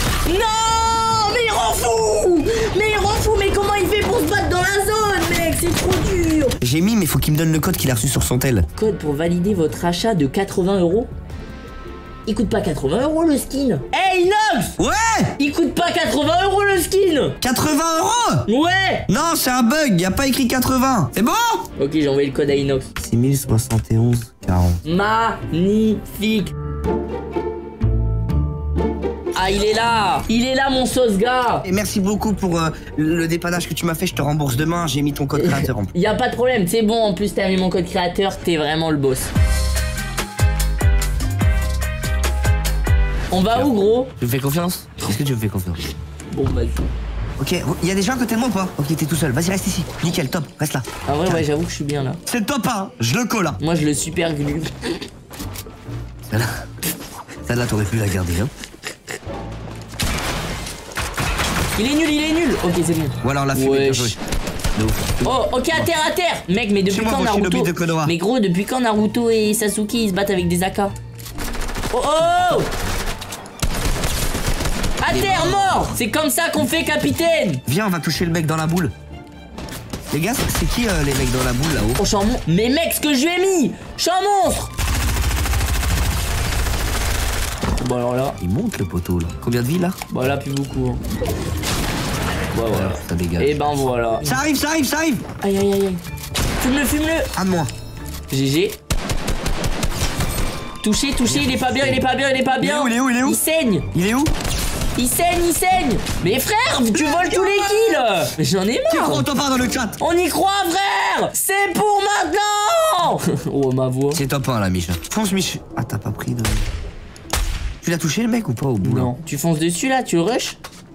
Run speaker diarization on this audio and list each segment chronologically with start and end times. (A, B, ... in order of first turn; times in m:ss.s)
0:00.2-0:06.6 A
0:06.6-0:08.7 B
0:08.8-0:11.1 A
0:12.3-0:14.8 A
0:14.8-0:15.4 B
0:15.4-0:17.4 A
0:17.4-0:18.5 B
0:18.5-0:19.1 A
0:19.1-0:21.6 B
0:21.8-0:22.9 A
0:23.0-0:24.8 B
0:24.8-0:26.5 A
0:29.4-0:31.7 A
0:31.6-0:35.9 B
0:35.3-0:39.3 A
0:43.3-0:44.1 A
0:43.6-0:45.8 B
0:46.3-0:46.8 A
0:47.4-0:51.4 B
0:51.1-0:52.2 A
0:52.3-0:53.6 B
0:53.6-0:55.1 A
0:56.3-0:56.6 B
0:57.5-0:58.5 B
1:01.8-1:04.2 A
1:03.2-1:04.2 B
1:04.8-1:05.9 B
1:05.2-1:10.9 A
1:06.9-1:08.2 B
1:11.9-1:12.7 A
1:15.0-1:17.6 A
1:15.1-1:15.9 B
1:17.7-1:18.9 B
1:20.1-1:22.0 B
1:22.0-1:24.7 A
1:27.8-1:28.4 A
1:28.4-1:30.0 B
1:30.1-1:31.0 A
1:32.5-1:34.4 A
1:32.7-1:33.6 B
1:34.2-1:35.2 B
1:35.4-1:36.0 A
1:36.6-1:37.3 A
1:37.4-1:37.7 B
1:38.3-1:38.8 A
1:40.8-1:43.9 A
1:41.3-1:42.0 B
1:42.6-1:43.4 B
1:43.9-1:44.3 B
1:45.0-1:49.3 A
1:47.1-1:47.6 B
1:48.9-1:50.0 B
1:50.0-1:54.2 A
1:54.1-1:56.7 B
1:57.8-1:59.1 B
1:58.8-2:00.6 A